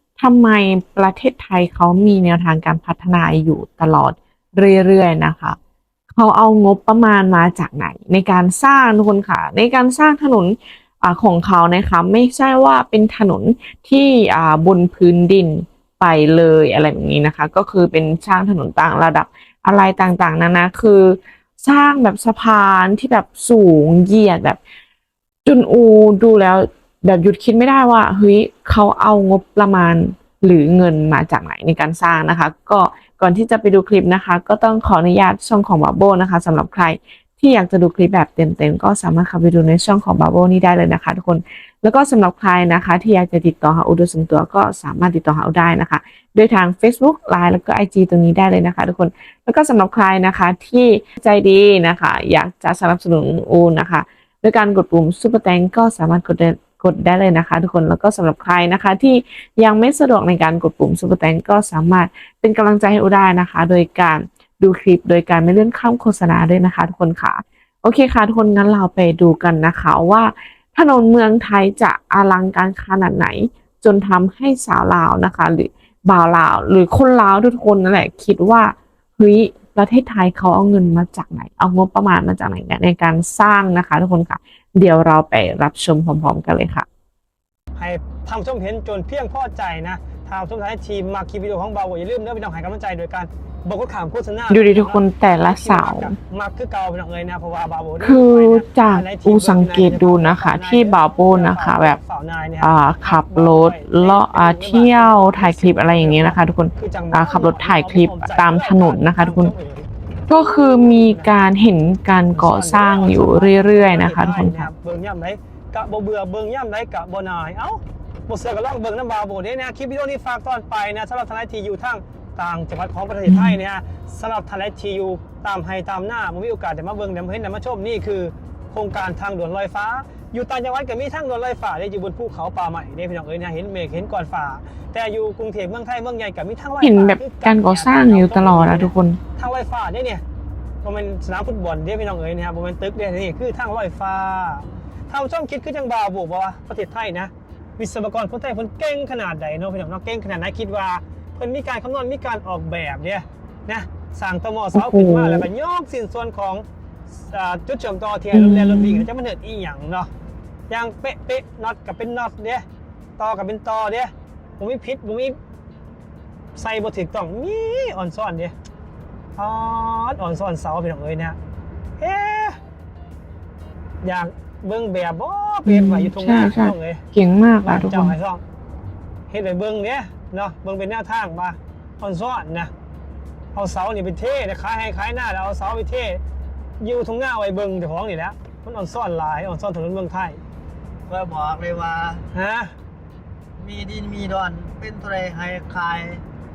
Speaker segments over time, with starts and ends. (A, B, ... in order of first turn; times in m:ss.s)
0:00.2-0:05.6 A
0:06.1-0:24.6 A
0:25.4-1:26.8 A
1:27.8-1:49.9 B
1:34.5-1:36.2 A
1:38.0-1:42.0 A
1:42.6-1:49.5 A
1:50.3-1:54.7 A
1:50.9-1:51.3 B
1:52.3-2:20.2 B
2:03.3-2:03.6 A
2:16.8-2:19.2 A
2:20.8-2:40.1 B
2:34.7-2:35.4 A
2:38.3-2:39.0 A
2:40.7-2:42.6 B
2:43.2-2:45.4 B
2:46.5-2:48.5 B
2:49.4-2:51.4 B
2:52.0-2:52.6 B
2:54.0-2:57.0 B
2:55.6-2:58.1 A
2:57.6-2:58.4 B
2:59.3-3:02.7 B
3:03.5-3:06.2 B
3:06.8-3:10.4 B
3:11.1-3:12.2 C
3:12.3-3:12.7 B
3:13.6-3:16.2 C